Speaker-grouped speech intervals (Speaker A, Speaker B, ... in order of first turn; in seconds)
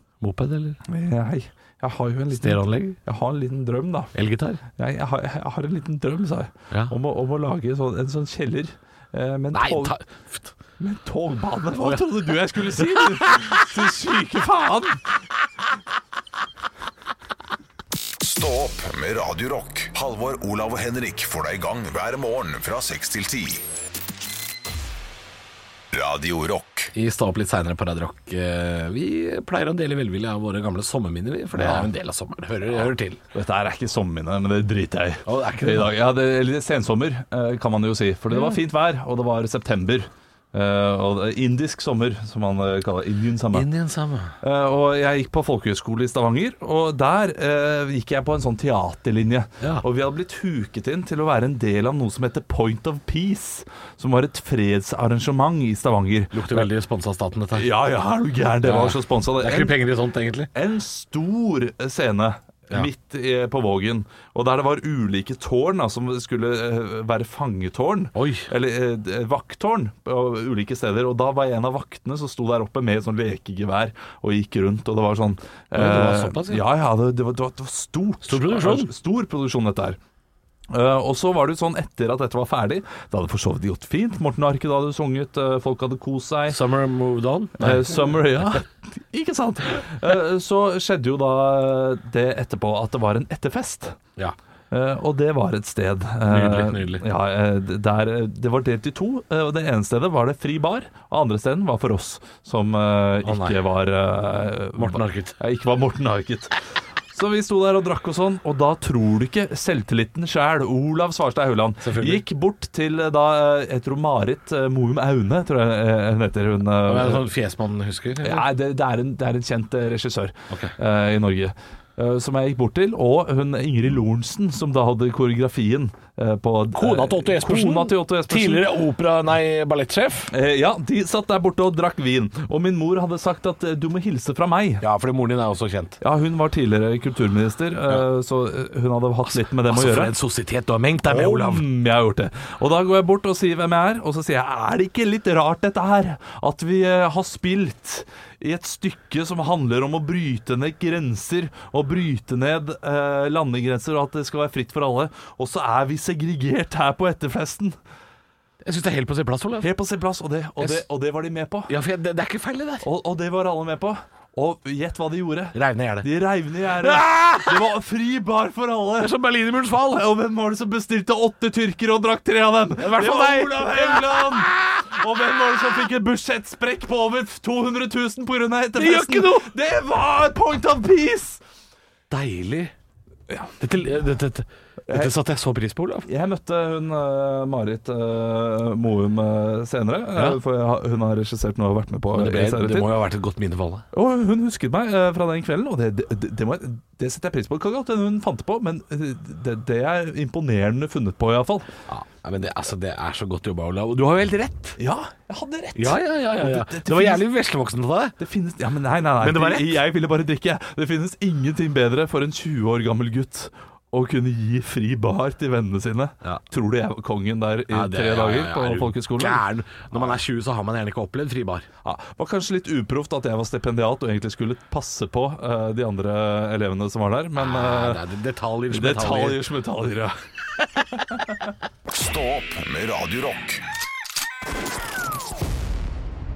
Speaker A: 0.2-0.8, 2.3-3.0, 4.1-4.6, 6.7-7.0, 9.5-10.5, 11.8-13.4, 26.9-33.2, 35.2-35.9, 38.3-38.6, 43.5-44.4, 56.3-57.6, 58.6-60.5, 68.1-68.5, 75.7-76.6, 78.2-78.9, 86.5-88.1, 96.3-97.0, 103.2-103.6, 104.8-105.3, 111.8-112.2, 116.8-118.5, 126.8-130.3, 134.8-136.0, 139.3-141.7, 158.6-159.7, 160.6-160.8, 161.7-162.9, 165.5-166.1, 166.8-167.6, 169.0-170.0, 172.8-174.8, 178.7-179.5, 182.1-182.7, 183.6-186.1, 192.1-193.9, 201.9-204.8, 205.7-208.2, 209.2-209.8, 217.7-221.7, 227.3-229.4
Speaker B: 0.8-4.1, 4.8-9.9, 10.8-15.0, 31.5-31.9, 32.8-43.7, 44.4-56.7, 57.5-59.8, 60.5-80.0, 80.7-86.6, 87.6-94.0, 94.7-106.6, 107.1-117.2, 118.2-128.7, 130.3-134.8, 136.0-140.1, 141.0-157.8, 159.6-161.7, 162.8-181.4, 183.3-183.5, 184.9-185.1, 186.0-192.9, 193.9-201.7, 204.8-207.2, 208.2-219.4, 221.8-228.0, 228.7-230.2
Speaker C: 18.2-23.6, 25.9-26.9, 231.9-233.6